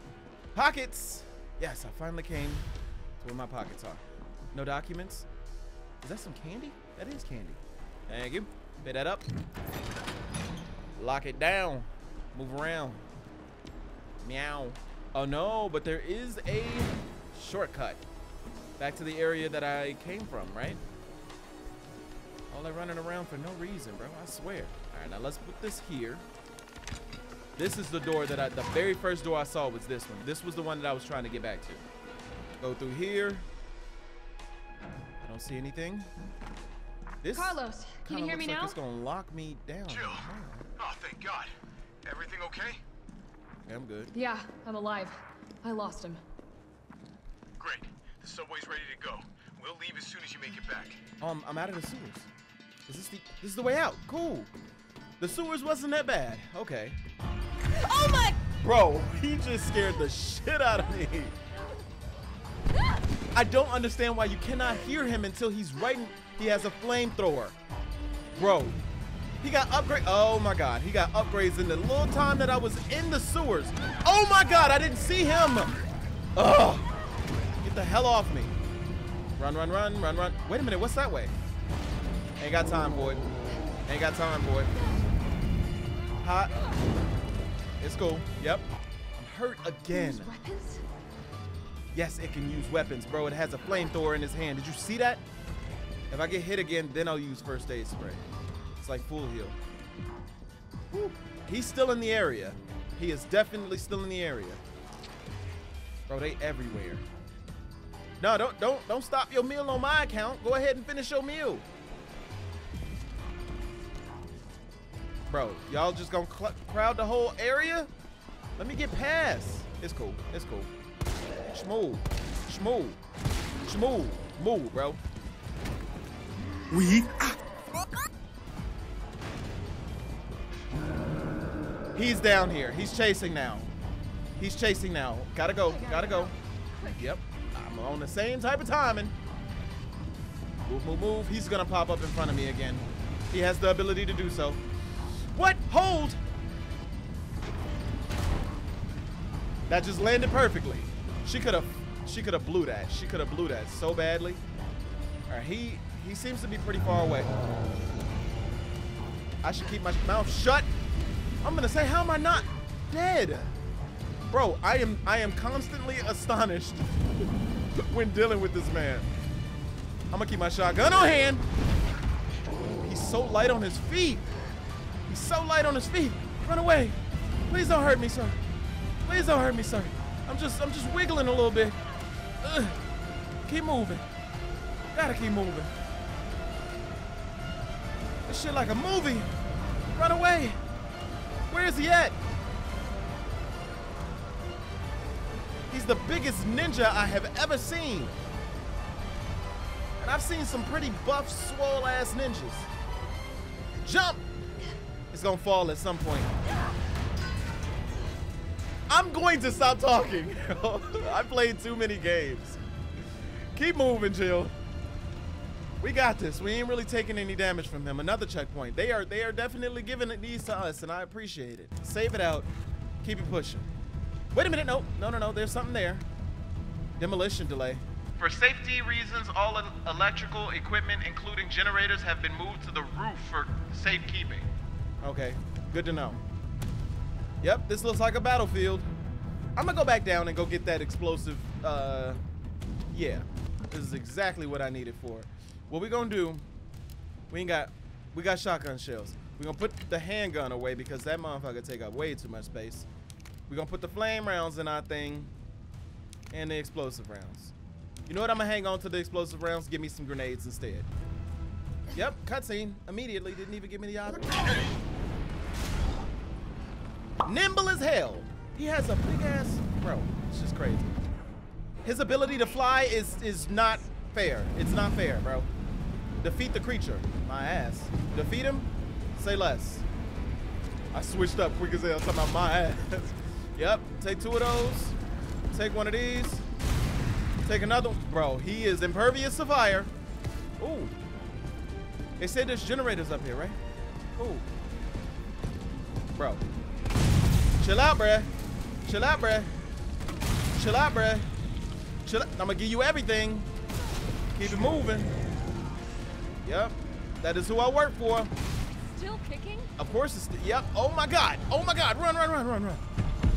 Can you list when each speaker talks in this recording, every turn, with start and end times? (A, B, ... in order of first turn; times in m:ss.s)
0:00.5-0:02.7 A
0:03.2-0:04.0 A
0:04.5-0:05.2 A
0:06.0-0:09.2 A
0:11.0-0:13.0 A
0:14.2-0:18.0 A
0:18.8-0:20.8 A
0:22.5-0:26.2 A
0:27.6-0:31.8 A
0:32.6-0:33.4 A
0:35.2-0:36.1 A
0:37.2-0:40.7 A
0:37.3-0:38.8 B
0:39.9-0:41.5 C
0:42.0-0:42.8 C
0:43.7-0:44.1 A
0:44.1-0:46.2 B
0:47.6-0:51.0 C
0:51.2-0:52.3 A
0:52.9-0:54.5 A
0:55.2-0:57.0 A
0:57.8-0:58.4 B
0:58.5-1:01.3 A
1:03.3-1:07.6 A
1:08.4-1:08.8 A
1:09.4-1:15.8 A
1:16.3-1:17.0 A
1:17.6-1:18.5 A
1:19.4-1:21.3 A
1:22.4-1:23.2 A
1:23.9-1:24.7 A
1:26.2-1:26.6 A
1:27.8-1:30.3 A
1:29.9-1:30.8 B
1:31.9-1:35.2 A
1:36.1-1:38.2 A
1:38.8-1:39.6 A
1:40.9-1:44.6 A
1:46.1-1:47.0 A
1:48.2-1:51.6 A
1:55.3-1:57.9 A
1:58.6-2:00.7 A
2:01.5-2:03.0 A
2:03.6-2:05.0 A
2:06.7-2:07.3 A
2:12.0-2:13.7 A
2:14.4-2:16.3 A
2:15.5-2:17.0 B
2:16.9-2:19.1 A
2:20.6-2:24.6 A
2:25.3-2:26.2 A
2:29.7-2:34.4 A
2:35.3-2:37.3 A
2:39.4-2:40.7 A
2:41.4-2:43.5 A
2:44.3-2:46.8 A
2:47.9-2:49.1 A
2:50.1-2:51.4 A
2:52.8-2:54.2 A
2:55.1-2:57.0 A
2:57.5-2:58.4 A
2:59.0-3:01.8 A
3:02.4-3:02.8 A
3:03.4-3:04.0 A
3:04.9-3:05.7 A
3:08.3-3:09.3 A
3:09.9-3:10.6 A
3:11.5-3:12.2 A
3:15.7-3:18.2 A
3:20.0-3:22.7 A
3:23.8-3:24.2 A
3:25.1-3:26.3 A
3:28.9-3:32.6 A
3:33.5-3:34.5 A
3:35.8-3:42.5 A
3:43.0-3:43.7 A
3:44.3-3:46.0 A
3:47.0-3:54.5 A
3:55.0-3:56.2 A
3:57.4-3:58.9 A
3:59.6-4:02.2 A
4:02.9-4:06.5 A
4:07.3-4:12.9 A
4:13.5-4:15.3 A
4:16.3-4:17.5 A
4:18.1-4:20.9 A
4:21.9-4:24.5 A
4:27.2-4:31.0 A
4:31.8-4:35.5 A
4:36.2-4:39.8 A
4:40.9-4:45.0 A
4:45.5-4:46.4 A
4:47.4-4:49.9 A
4:50.6-4:50.9 A
4:52.2-4:53.6 A
4:54.2-4:54.4 A
4:56.1-4:56.4 A
4:57.6-4:58.3 A
4:58.8-4:59.5 A
5:00.5-5:01.3 A
5:02.0-5:03.5 A
5:04.3-5:05.1 A
5:06.4-5:08.3 A
5:08.8-5:09.7 B
5:09.8-5:12.8 A